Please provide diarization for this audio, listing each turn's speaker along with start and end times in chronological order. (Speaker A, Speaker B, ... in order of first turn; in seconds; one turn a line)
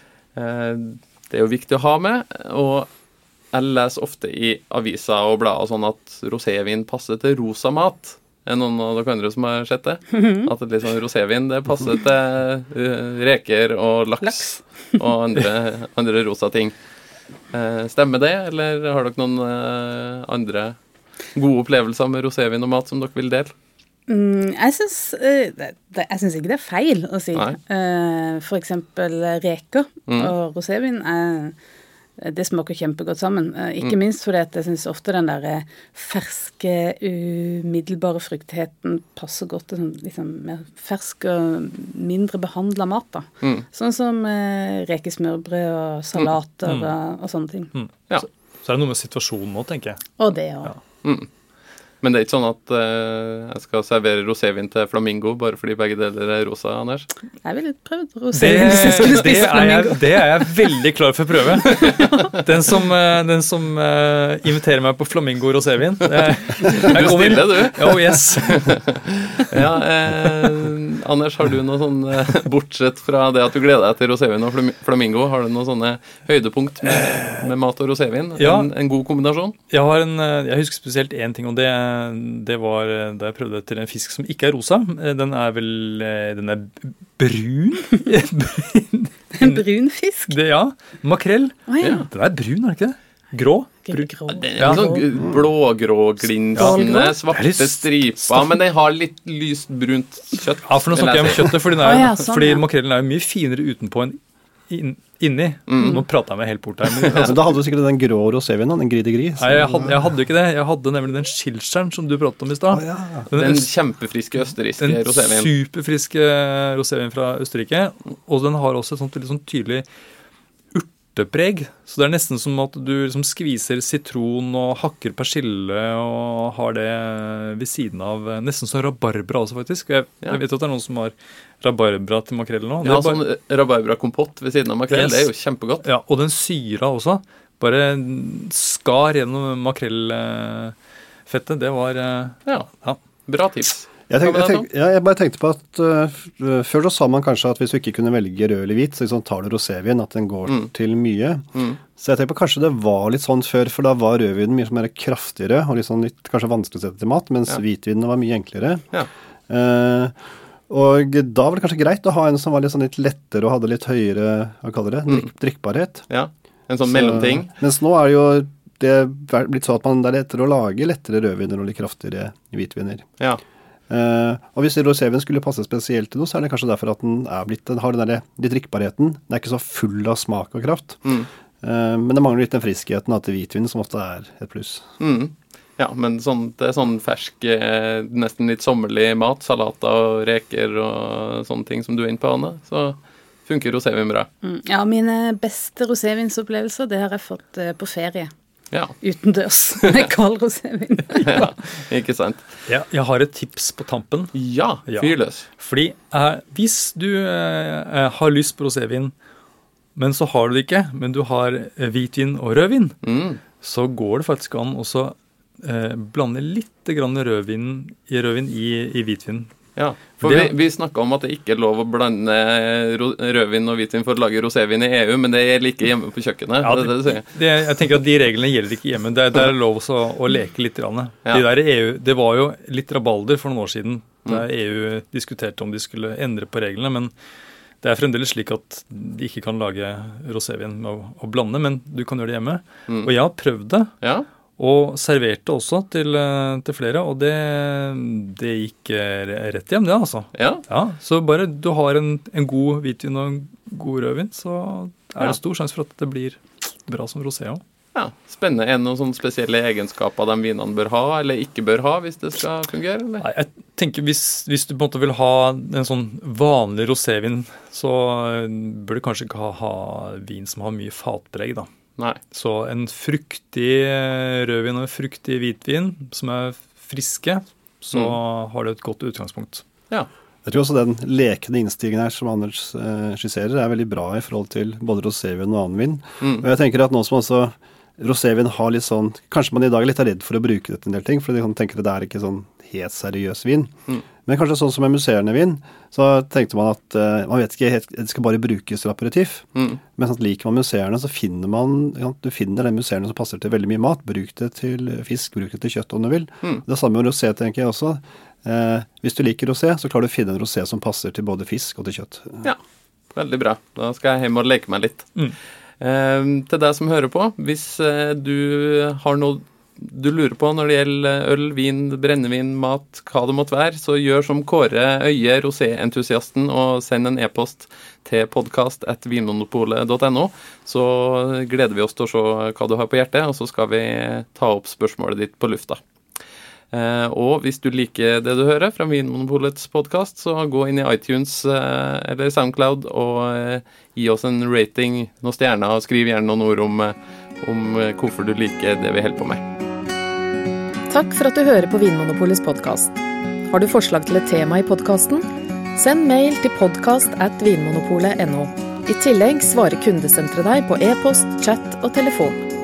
Speaker A: 0.3-2.9
Speaker A: 3.5-16.7
Speaker B: 10.2-10.4
Speaker B: 14.2-14.6
Speaker A: 17.5-20.8
Speaker A: 21.3-23.5
Speaker B: 24.1-31.5
Speaker B: 32.2-47.7
Speaker C: 46.6-46.9
Speaker C: 47.7-50.0
Speaker B: 50.2-50.7
Speaker A: 51.0-51.3
Speaker A: 52.0-57.1
Speaker B: 57.4-60.5
Speaker C: 58.3-69.6
Speaker A: 61.8-62.1
Speaker A: 66.7-79.5
Speaker C: 76.9-77.5
Speaker C: 78.4-78.7
Speaker C: 79.7-89.7
Speaker B: 89.3-90.3
Speaker C: 90.3-94.9
Speaker B: 91.7-92.0
Speaker B: 93.8-95.0
Speaker A: 94.4-102.0
Speaker C: 96.5-98.5
Speaker B: 96.6-97.1
Speaker C: 100.7-104.2
Speaker B: 101.8-102.6
Speaker C: 104.7-107.4
Speaker A: 105.7-106.0
Speaker A: 106.9-107.3
Speaker D: 107.1-110.0
Speaker C: 109.4-113.7
Speaker D: 112.7-113.3
Speaker A: 113.3-115.5
Speaker C: 114.8-119.8
Speaker C: 120.7-133.2
Speaker A: 132.8-135.8
Speaker C: 134.9-135.3
Speaker C: 135.8-140.7
Speaker C: 141.3-143.0
Speaker A: 143.3-144.7
Speaker D: 144.1-158.8
Speaker D: 159.5-160.1
Speaker D: 160.7-166.1
Speaker A: 166.1-167.5
Speaker D: 166.8-173.1
Speaker D: 173.9-181.1
Speaker D: 181.6-184.8
Speaker A: 185.0-194.3
Speaker B: 194.4-198.3
Speaker B: 199.0-201.5
Speaker A: 201.2-202.5
Speaker C: 202.7-204.3
Speaker A: 204.3-205.5
Speaker C: 204.9-209.1
Speaker C: 209.9-212.9
Speaker A: 213.0-213.4
Speaker C: 213.6-219.5
Speaker A: 219.8-227.3
Speaker C: 220.2-220.5
Speaker C: 226.6-237.1
Speaker C: 237.8-243.9
Speaker A: 244.0-244.3
Speaker C: 244.6-257.6
Speaker A: 250.3-250.6
Speaker A: 257.9-263.2
Speaker C: 263.2-271.7
Speaker C: 272.3-279.6
Speaker D: 280.4-312.4
Speaker A: 286.2-286.4
Speaker A: 313.1-315.1
Speaker A: 315.8-335.8
Speaker A: 336.7-349.4
Speaker E: 350.9-352.9
Speaker E: 353.5-355.2
Speaker E: 355.8-362.4